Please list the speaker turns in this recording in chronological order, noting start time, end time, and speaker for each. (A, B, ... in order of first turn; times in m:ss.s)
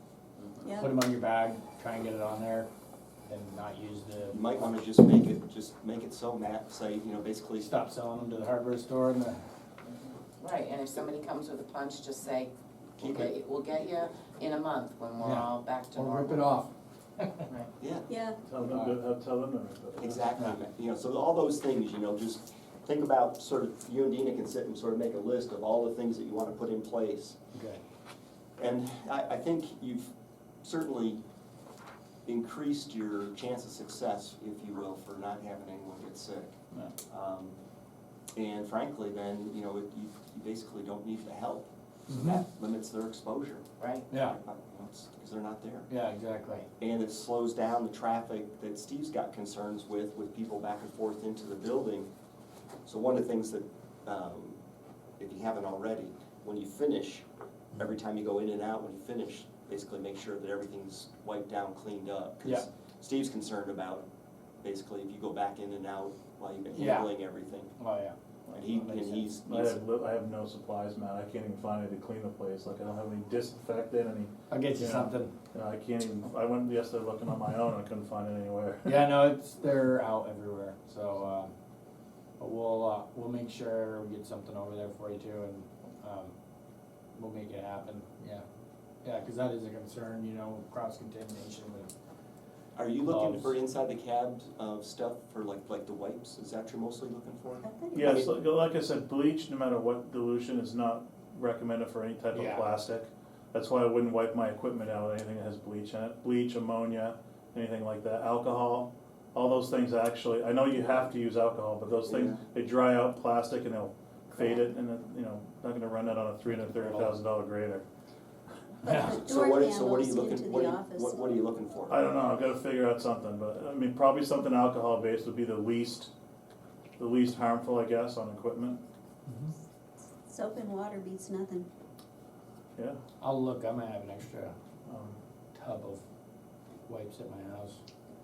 0:00.4-0:00.6 A
0:00.6-0:00.9 B
0:00.8-0:02.7 C
0:03.2-0:04.6 C
0:04.3-0:07.7 D
0:07.6-0:09.4 C
0:10.4-0:16.6 A
0:13.0-0:13.4 D
0:15.2-0:17.4 C
0:17.8-0:18.1 D
0:18.1-0:18.4 B
0:18.5-0:20.2 E
0:18.6-0:19.0 C
0:20.0-0:27.4 D
0:27.5-0:27.8 C
0:28.6-0:31.2 D
0:32.2-0:36.6 D
0:37.1-0:37.6 D
0:38.3-0:45.9 D
0:42.1-0:42.4 C
0:43.8-0:44.0 A
0:44.1-0:44.4 C
0:45.9-0:46.7 C
0:46.8-0:52.1 D
0:52.8-0:54.6 D
0:55.2-0:57.2 D
0:57.8-1:04.0 D
1:04.6-1:07.7 D
1:06.7-1:07.1 C
1:07.8-1:08.2 C
1:08.5-1:09.8 D
1:08.7-1:09.3 C
1:09.4-1:19.1 E
1:14.5-1:15.3 C
1:18.8-1:21.5 C
1:22.4-1:26.3 C
1:27.1-1:28.4 C
1:29.0-1:31.9 C
1:32.7-1:38.3 D
1:33.0-1:33.5 C
1:37.6-1:38.0 B
1:37.9-1:57.8 E
1:42.3-1:42.7 C
1:52.0-1:52.4 D
1:56.6-1:57.1 C
1:58.8-2:01.4 B
1:58.8-1:59.2 C
1:58.9-2:02.0 D
2:01.9-2:06.1 E
2:07.0-2:08.8 E
2:09.3-2:09.5 C
2:10.3-2:11.7 B
2:13.2-2:14.5 C
2:14.9-2:15.2 E
2:15.5-2:16.0 C
2:16.8-2:17.8 C